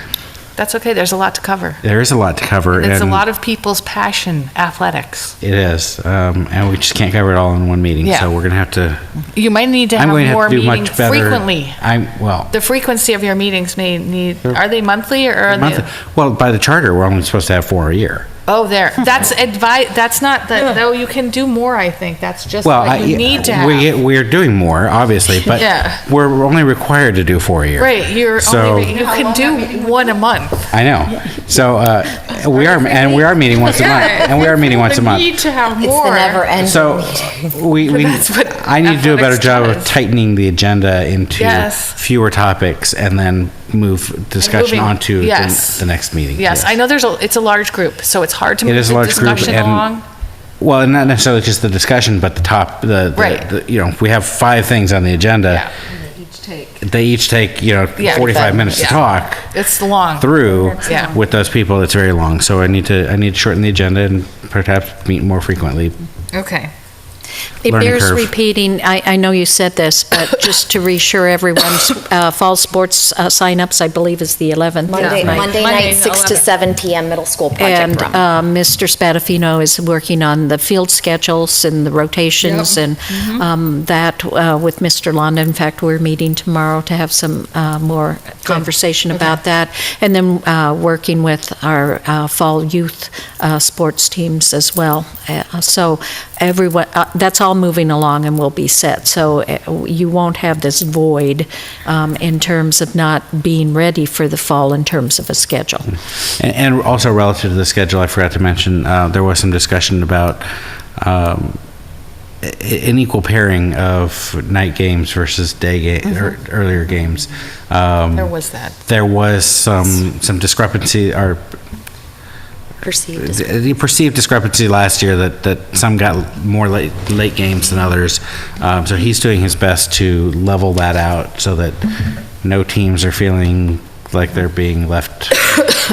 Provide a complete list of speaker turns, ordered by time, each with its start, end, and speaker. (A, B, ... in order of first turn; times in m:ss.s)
0:00.6-0:01.8 A
0:01.8-0:03.2 B
0:02.7-0:05.3 A
0:05.4-0:09.0 B
0:08.0-0:08.3 A
0:09.3-0:11.8 A
0:09.9-0:12.5 B
0:12.5-0:15.8 A
0:15.5-0:18.3 B
0:18.5-0:23.9 A
0:22.6-0:29.0 B
0:25.5-0:26.0 A
0:27.8-0:30.7 A
0:30.7-0:35.4 B
0:33.7-0:36.5 A
0:35.8-0:37.5 C
0:36.6-0:46.8 B
0:37.8-0:39.9 A
0:41.4-0:42.0 A
0:44.4-0:50.0 A
0:48.6-0:49.9 B
0:50.6-0:55.7 B
0:53.1-0:53.4 A
0:56.8-0:59.5 B
0:58.0-1:00.3 A
1:00.2-1:06.0 B
1:00.8-1:01.1 A
1:06.3-1:06.7 A
1:07.6-1:16.4 D
1:07.7-1:08.3 B
1:14.9-1:18.2 C
1:15.0-1:16.4 A
1:17.6-1:45.9 D
1:22.4-1:23.4 A
1:46.4-1:51.6 B
1:52.4-1:58.3 B
1:58.1-1:58.7 A
1:58.8-2:01.4 B
2:02.8-2:03.4 C
2:03.2-2:15.6 B